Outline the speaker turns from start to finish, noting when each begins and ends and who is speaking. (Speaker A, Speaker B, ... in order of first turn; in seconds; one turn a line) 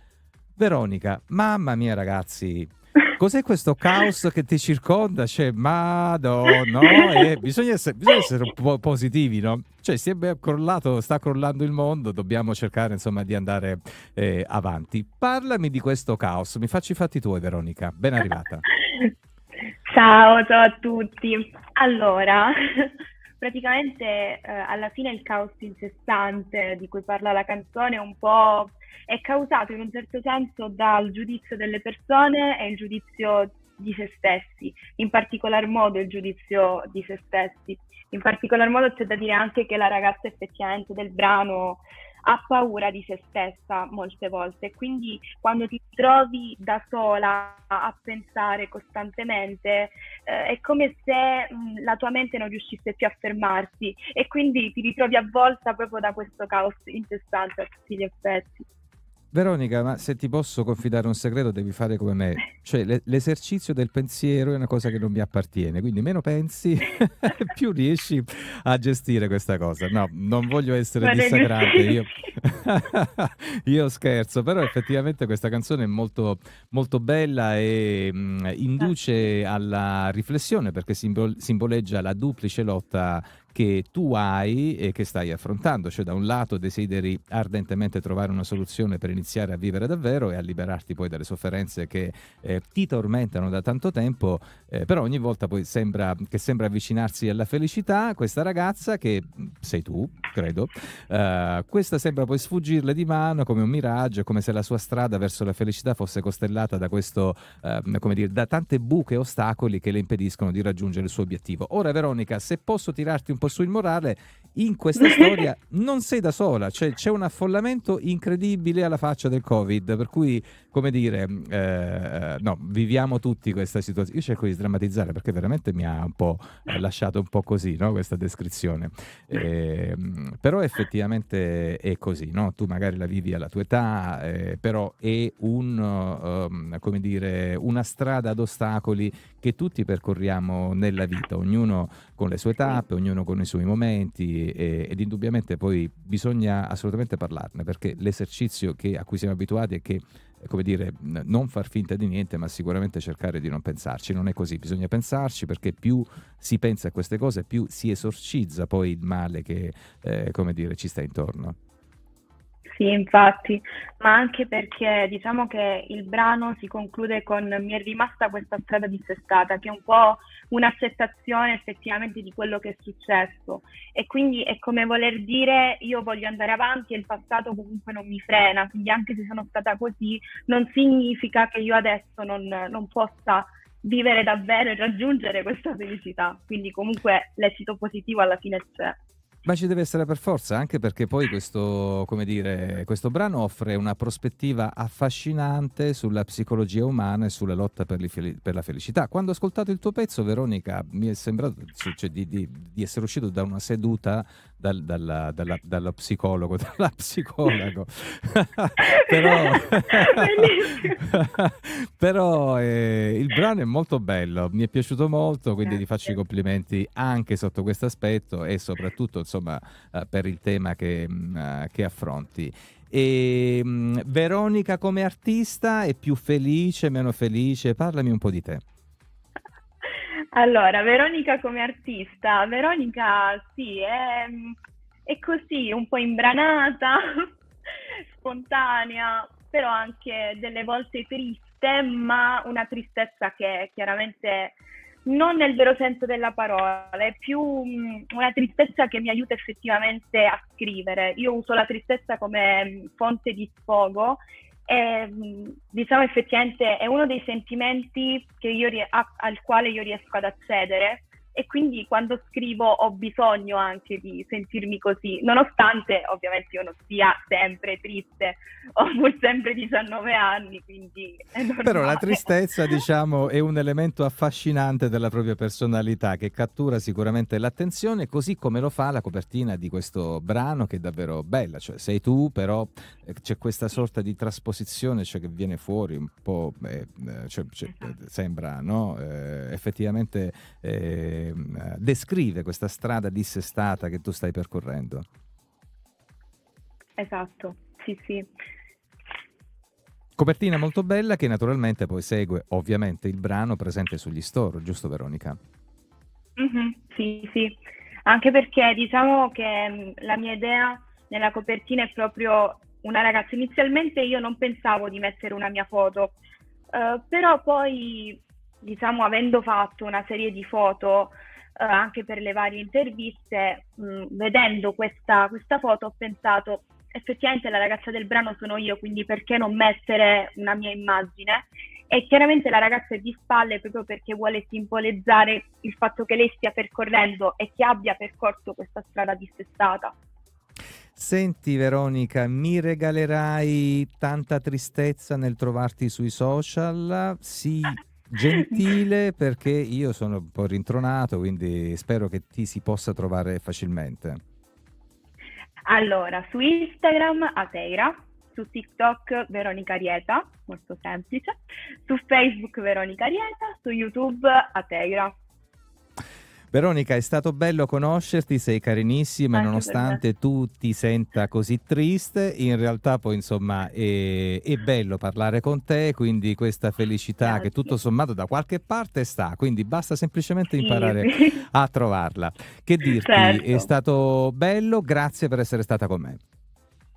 Speaker A: 0.6-18.6
Speaker B: 18.8-19.1
Speaker B: 19.9-58.7
Speaker A: 59.3-161.6
Speaker B: 71.0-72.0
Speaker B: 115.0-115.4
Speaker B: 162.7-189.0
Speaker A: 189.4-228.6
Speaker B: 208.9-211.0
Speaker B: 229.8-237.0
Speaker B: 237.9-272.8
Speaker A: 271.6-295.0
Speaker B: 297.0-298.3
Speaker A: 300.2-305.4
Speaker B: 306.4-316.2
Speaker B: 316.7-339.9
Speaker A: 340.9-354.2
Speaker B: 348.3-348.6
Speaker B: 355.7-365.1
Speaker A: 366.5-386.2
Speaker B: 369.3-370.0
Speaker B: 377.2-377.7
Speaker B: 380.6-381.4
Speaker B: 383.0-383.7